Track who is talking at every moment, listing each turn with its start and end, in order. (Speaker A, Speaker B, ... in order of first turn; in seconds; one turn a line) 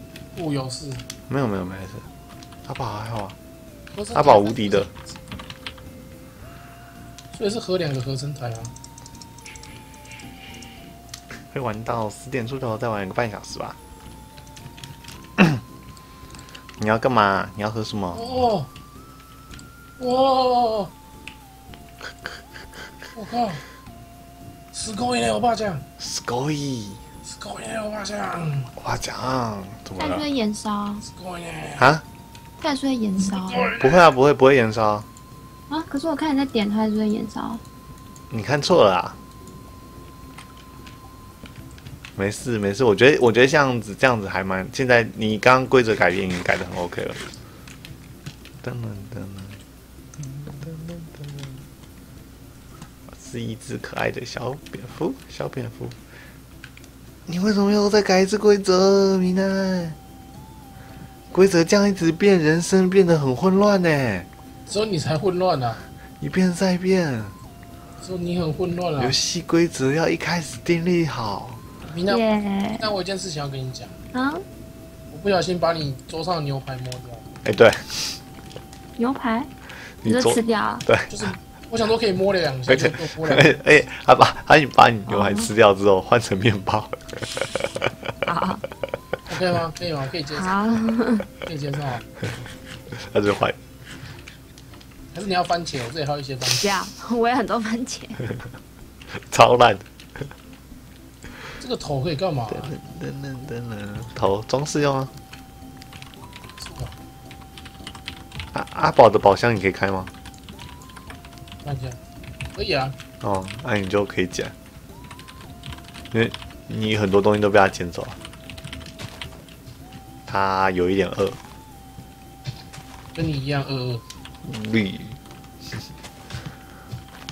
Speaker A: 0.3-1.1
Speaker B: 1.3-2.1
Speaker B: 2.6-3.4
Speaker A: 3.9-4.9
Speaker B: 4.1-4.9
Speaker A: 7.3-8.7
Speaker B: 11.5-13.8
Speaker B: 16.8-18.4
Speaker A: 18.1-18.7
Speaker A: 20.0-20.9
Speaker A: 23.1-23.6
Speaker A: 24.7-25.8
Speaker B: 26.0-27.0
Speaker A: 27.2-28.7
Speaker B: 28.8-30.3
Speaker C: 30.0-31.1
Speaker A: 31.0-31.9
Speaker B: 31.8-32.0
Speaker C: 32.6-33.7
Speaker A: 33.2-34.1
Speaker B: 33.8-35.1
Speaker C: 35.7-37.6
Speaker B: 38.3-39.2
Speaker B: 42.2-47.2
Speaker B: 48.6-49.6
Speaker B: 50.2-51.6
Speaker B: 53.1-56.0
Speaker B: 57.3-60.0
Speaker B: 61.3-64.3
Speaker A: 64.7-65.8
Speaker B: 66.2-67.4
Speaker A: 68.0-69.2
Speaker B: 69.0-71.6
Speaker A: 71.9-72.2
Speaker C: 72.1-72.9
Speaker A: 72.8-74.0
Speaker C: 74.1-74.5
Speaker A: 75.1-77.3
Speaker B: 77.5-78.2
Speaker C: 79.0-79.5
Speaker B: 80.0-81.3
Speaker C: 80.0-80.9
Speaker A: 81.1-83.6
Speaker B: 82.7-88.1
Speaker C: 85.1-85.5
Speaker C: 88.2-88.6
Speaker A: 89.3-90.7
Speaker C: 90.3-91.3
Speaker A: 91.4-92.1
Speaker B: 92.9-93.6
Speaker A: 95.1-96.7
Speaker C: 96.5-98.2
Speaker B: 99.1-100.3
Speaker A: 101.6-102.8
Speaker B: 102.5-105.1
Speaker A: 106.6-107.0
Speaker B: 108.5-110.1
Speaker A: 111.6-112.0
Speaker A: 112.5-113.0
Speaker B: 113.2-114.5
Speaker B: 116.1-118.2
Speaker B: 120.3-121.4
Speaker A: 123.1-124.0
Speaker B: 124.4-125.2